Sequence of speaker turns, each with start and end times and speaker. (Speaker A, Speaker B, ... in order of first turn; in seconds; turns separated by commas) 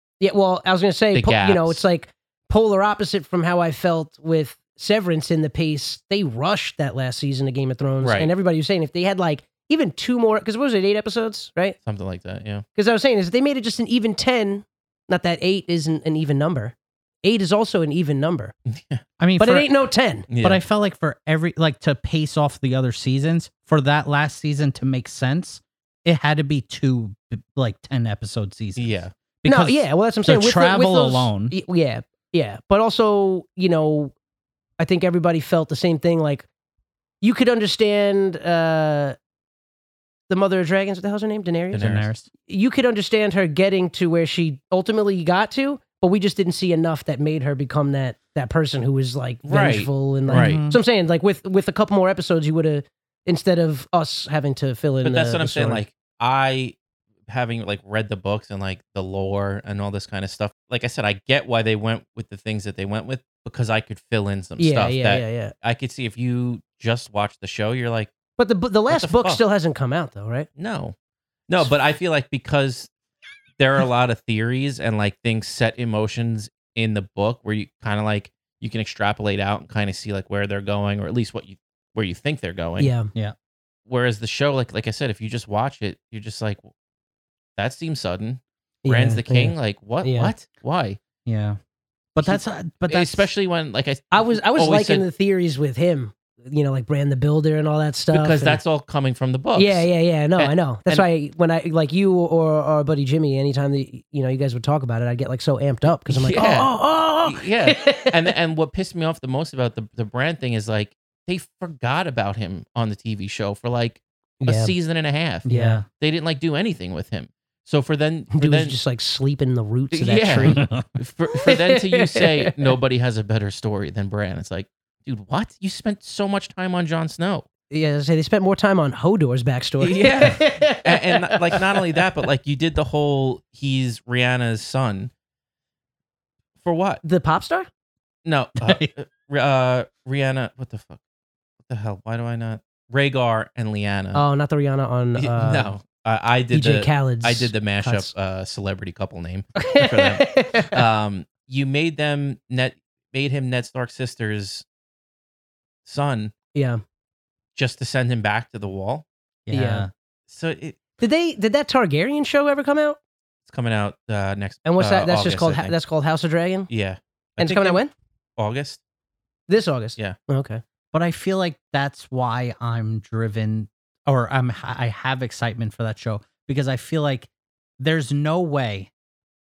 Speaker A: 0.2-11.8, Speaker B: 1.1-1.8, Speaker B: 8.0-8.3, Speaker B: 11.8-12.6, Speaker A: 12.8-18.5, Speaker B: 18.6-19.0, Speaker C: 19.2-19.7, Speaker A: 19.4-20.3, Speaker B: 20.3-20.6, Speaker C: 20.4-31.5, Speaker B: 28.8-29.1, Speaker A: 29.4-34.1, Speaker A: 34.8-36.5, Speaker A: 37.2-39.2, Speaker A: 40.3-41.9, Speaker B: 41.7-42.1, Speaker C: 41.8-42.2, Speaker A: 42.4-55.8, Speaker B: 49.4-50.6, Speaker C: 50.3-50.8, Speaker B: 55.0-68.1, Speaker A: 64.6-65.5, Speaker A: 68.4-70.5, Speaker B: 68.9-69.4, Speaker B: 70.6-70.9, Speaker B: 71.5-72.9, Speaker B: 73.6-82.9, Speaker A: 82.8-83.1, Speaker B: 83.9-86.7, Speaker B: 87.6-91.0, Speaker A: 88.8-90.3, Speaker C: 91.2-91.6, Speaker C: 92.1-93.3, Speaker B: 92.9-95.0, Speaker A: 94.1-98.6, Speaker B: 98.1-101.0, Speaker A: 99.5-108.3, Speaker B: 106.1-106.7, Speaker B: 107.2-118.8, Speaker A: 114.4-114.7, Speaker C: 115.4-115.8, Speaker A: 115.5-115.8, Speaker A: 118.3-120.6, Speaker B: 119.9-127.5, Speaker C: 120.4-120.8, Speaker A: 121.4-122.5, Speaker A: 127.7-131.7, Speaker B: 129.8-135.1, Speaker B: 136.6-137.0, Speaker A: 137.0-137.7, Speaker B: 138.2-141.0, Speaker C: 138.6-138.9, Speaker B: 141.7-144.2, Speaker A: 144.1-145.7, Speaker B: 145.2-154.6, Speaker A: 146.5-148.1, Speaker A: 149.6-150.8, Speaker B: 155.8-156.3, Speaker A: 156.5-156.8, Speaker B: 157.5-159.1, Speaker C: 159.5-159.9, Speaker A: 159.5-159.9, Speaker B: 160.3-160.8, Speaker A: 161.0-163.0, Speaker B: 163.4-165.8, Speaker A: 164.6-166.7, Speaker B: 166.7-167.8, Speaker A: 167.4-167.9, Speaker B: 168.4-168.8, Speaker A: 169.5-170.6, Speaker C: 170.9-177.3, Speaker C: 177.8-178.9